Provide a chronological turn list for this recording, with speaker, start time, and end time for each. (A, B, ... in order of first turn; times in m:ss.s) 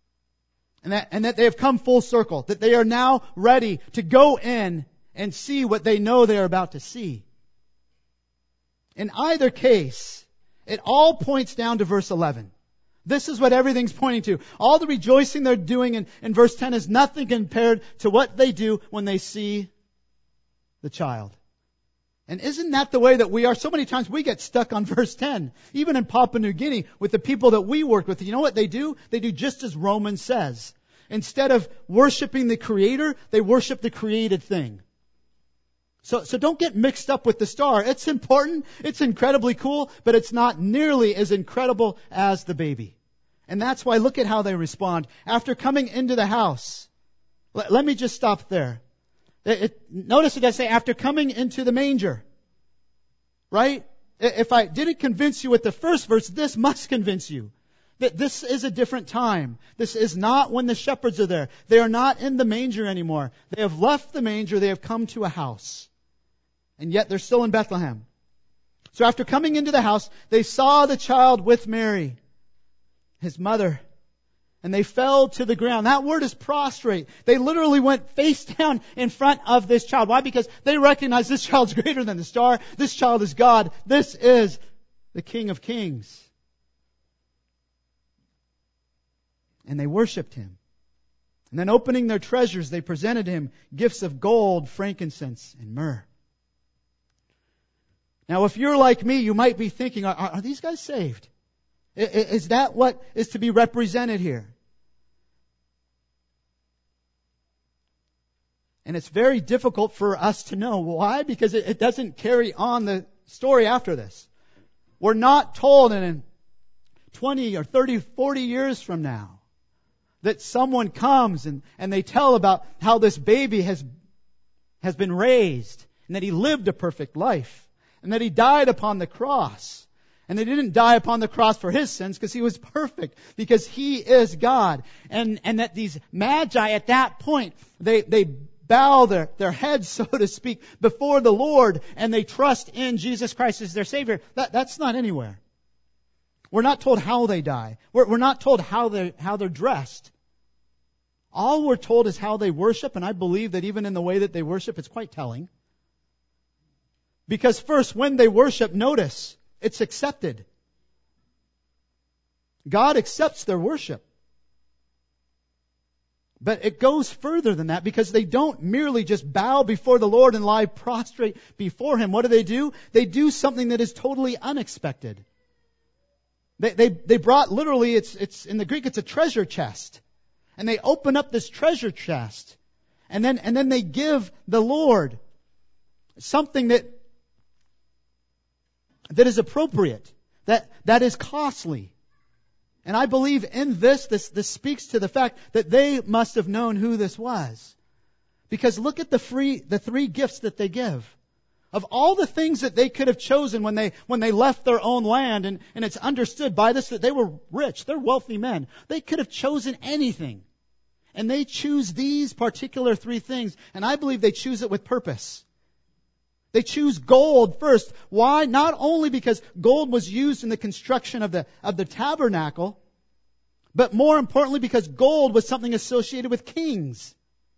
0:00.8-0:07.2 A
0:09.0-0:12.5 A
0:13.0-0:19.7 A
0:20.8-0:21.4 A
0:22.3-0:34.8 A
0:36.0-0:42.9 A
0:43.5-0:46.9 A
0:47.5-0:48.8 A
0:49.4-0:52.2 A
0:53.5-1:05.9 A
1:06.8-1:08.0 A
1:08.9-1:12.2 A
1:13.2-1:13.8 A
1:14.6-1:24.6 A
1:25.1-1:26.3 A
1:29.6-1:30.6 A
1:31.5-1:36.0 A
1:38.3-1:41.3 A
1:42.0-1:44.5 A
1:48.8-1:54.3 A
1:55.0-1:56.2 A
1:57.1-1:59.4 A
2:00.2-2:03.8 A
2:04.8-2:25.4 A
2:26.5-2:30.1 A
2:31.3-2:35.5 A
2:37.3-2:40.4 A
2:42.6-2:44.0 A
2:46.4-2:55.2 A
2:56.6-3:00.0 A
3:00.6-3:02.6 A
3:03.1-3:05.2 A
3:06.2-3:07.0 A
3:09.1-3:11.9 A
3:12.8-3:17.7 A
3:18.5-3:21.1 A
3:21.7-3:30.4 A
3:31.1-3:35.4 A
3:36.5-3:42.8 A
3:43.7-3:47.1 A